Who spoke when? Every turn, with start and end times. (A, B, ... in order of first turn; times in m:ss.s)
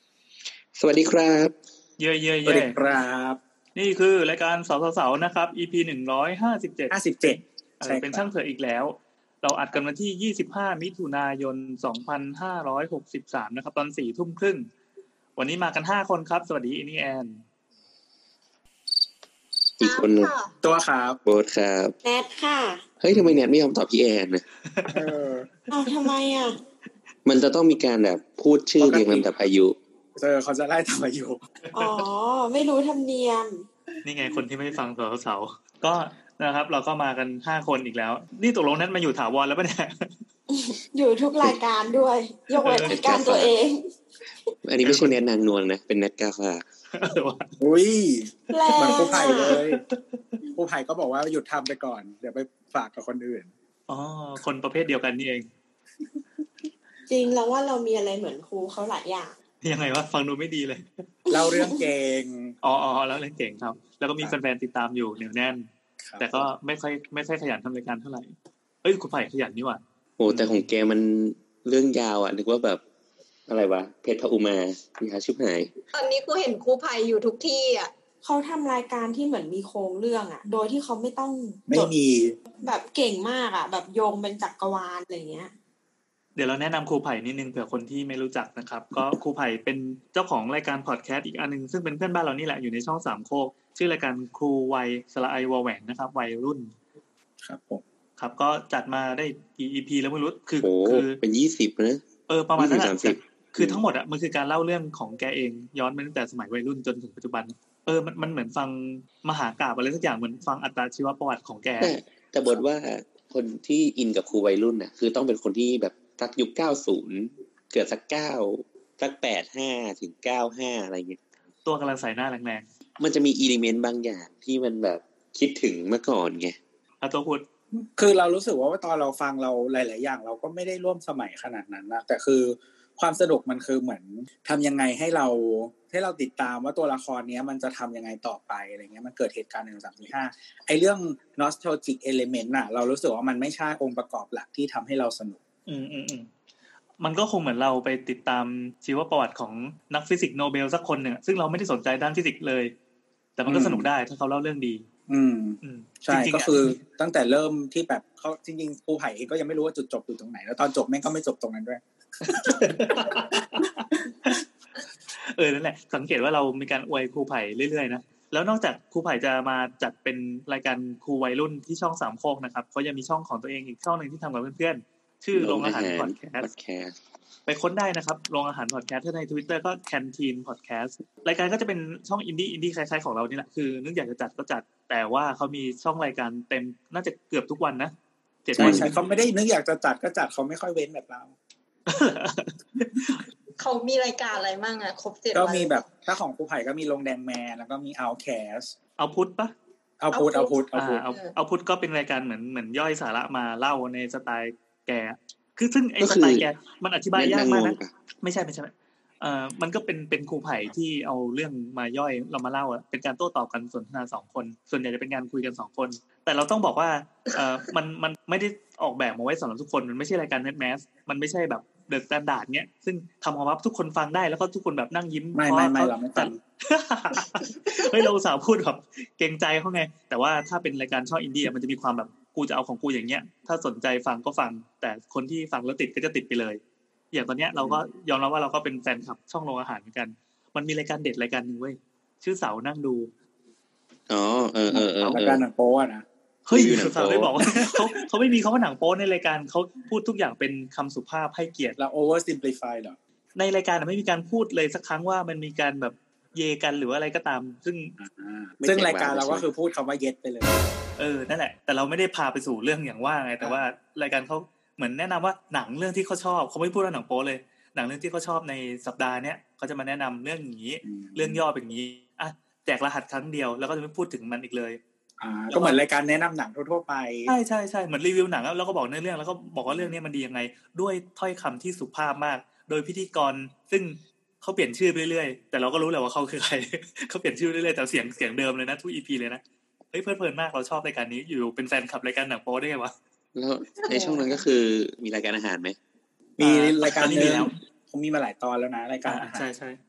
0:00.7-0:01.5 A
0:02.0-0:02.8 B
0:02.4-0:03.4 C
0:03.7-0:14.7 B
0:06.9-0:08.3 C
0:15.4-0:17.4 B
0:19.8-0:20.3 A
0:19.8-0:20.5 D
0:20.6-0:21.2 C
0:21.2-0:21.9 A
0:22.0-0:22.8 E
0:23.0-0:24.4 A
0:23.1-0:23.4 B
0:24.7-0:25.1 B
0:24.9-0:25.5 C
0:25.7-0:26.6 E
0:27.2-0:29.7 A
0:28.8-0:29.3 C
0:30.2-0:31.4 C
0:31.7-0:32.0 B
0:31.7-0:33.7 E
0:34.0-0:40.2 B
0:40.5-0:43.8 E
0:42.6-0:43.0 B
0:42.8-0:43.5 A
0:44.6-0:46.6 A
0:44.8-0:45.2 B
0:46.9-0:47.5 B
0:47.6-0:49.8 C
0:48.5-0:49.6 E
0:48.9-0:49.8 B
0:50.5-0:53.5 C
0:53.9-0:55.5 B
0:57.1-0:59.4 E
0:59.6-1:00.9 B
1:01.3-1:02.5 C
1:01.3-1:01.8 E
1:02.6-1:05.7 B
1:06.0-1:06.4 C
1:06.2-1:10.6 B
1:10.2-1:12.8 A
1:13.5-1:15.7 A
1:15.9-1:17.9 D
1:18.2-1:21.9 E
1:21.7-1:22.4 C
1:22.6-1:25.5 E
1:26.4-1:36.7 B
1:37.4-1:37.8 C
1:38.2-1:41.2 B
1:40.6-1:42.0 A
1:42.3-1:52.0 B
1:42.6-1:43.8 A
1:51.8-2:01.2 A
2:01.6-2:02.6 B
2:03.0-2:06.6 A
2:07.0-2:07.4 B
2:07.7-2:25.4 C
2:25.7-2:26.3 B
2:27.0-2:32.7 B
2:33.4-2:34.8 B
2:33.5-2:33.9 C
2:35.1-2:42.6 C
2:35.6-2:36.8 B
2:42.2-2:44.4 B
2:45.2-2:56.5 B
2:55.3-2:56.9 A
2:57.5-3:07.9 B
3:08.4-3:08.9 B
3:08.6-3:08.9 A
3:08.6-3:11.3 C
3:11.9-3:13.2 B
3:13.6-3:15.8 D
3:15.3-3:18.7 C
3:19.0-3:19.5 B
3:20.0-3:21.0 C
3:20.1-3:20.5 D
3:20.7-3:56.6 B
3:26.0-3:26.5 A
3:27.1-3:27.9 A
3:45.3-3:46.4 C
3:57.1-4:03.1 B
3:57.6-3:57.8 A
4:04.1-4:05.4 A
4:04.7-4:06.0 C
4:06.5-4:11.8 B
4:06.5-4:07.9 A
4:11.8-4:13.0 C
4:13.4-4:18.0 B
4:18.0-4:20.7 C
4:18.6-4:19.4 A
4:21.0-4:34.8 B
4:30.8-4:31.4 C
4:35.2-4:37.3 C
4:35.5-4:35.8 B
4:37.3-4:49.4 B
4:49.9-4:52.9 B
4:53.4-4:55.8 A
4:53.8-4:54.4 D
4:56.4-4:59.4 C
4:56.4-4:57.5 B
4:59.0-4:59.8 B